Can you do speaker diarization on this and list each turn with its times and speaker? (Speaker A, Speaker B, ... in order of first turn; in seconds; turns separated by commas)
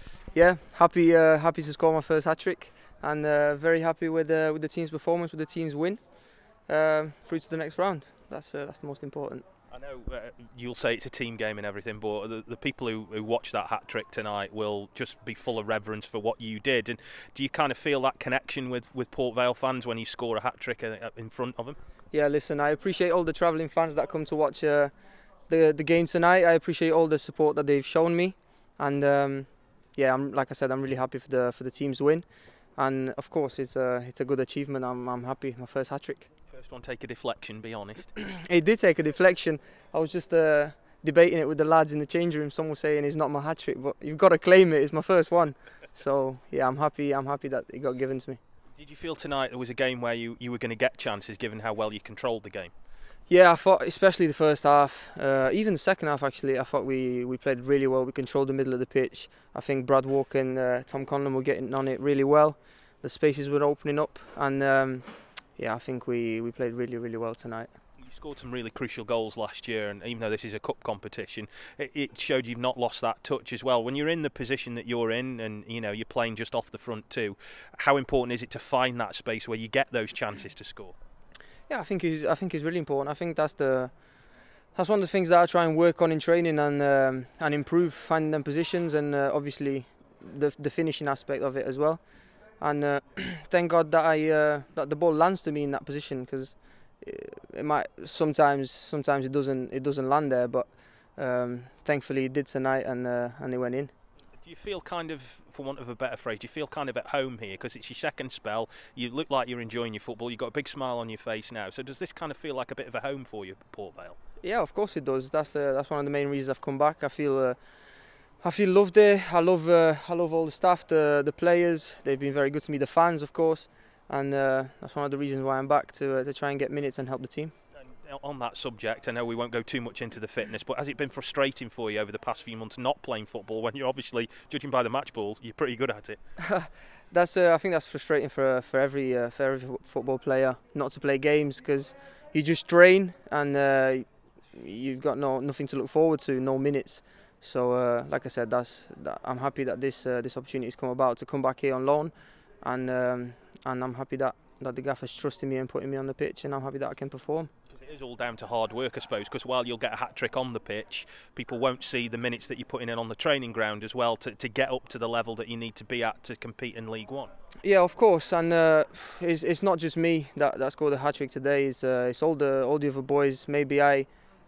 Speaker A: 0.3-9.5, Speaker B: 9.7-21.8, Speaker A: 22.1-24.9, Speaker A: 25.5-36.3, Speaker B: 36.5-38.1, Speaker A: 38.4-48.4, Speaker B: 48.8-52.7, Speaker A: 53.3-67.7, Speaker B: 68.0-81.0, Speaker A: 81.7-83.9, Speaker A: 84.7-103.9, Speaker B: 104.4-114.2, Speaker A: 114.4-117.6, Speaker A: 118.4-127.5, Speaker B: 127.8-136.2, Speaker A: 136.4-157.5, Speaker B: 157.7-167.3, Speaker A: 167.6-174.1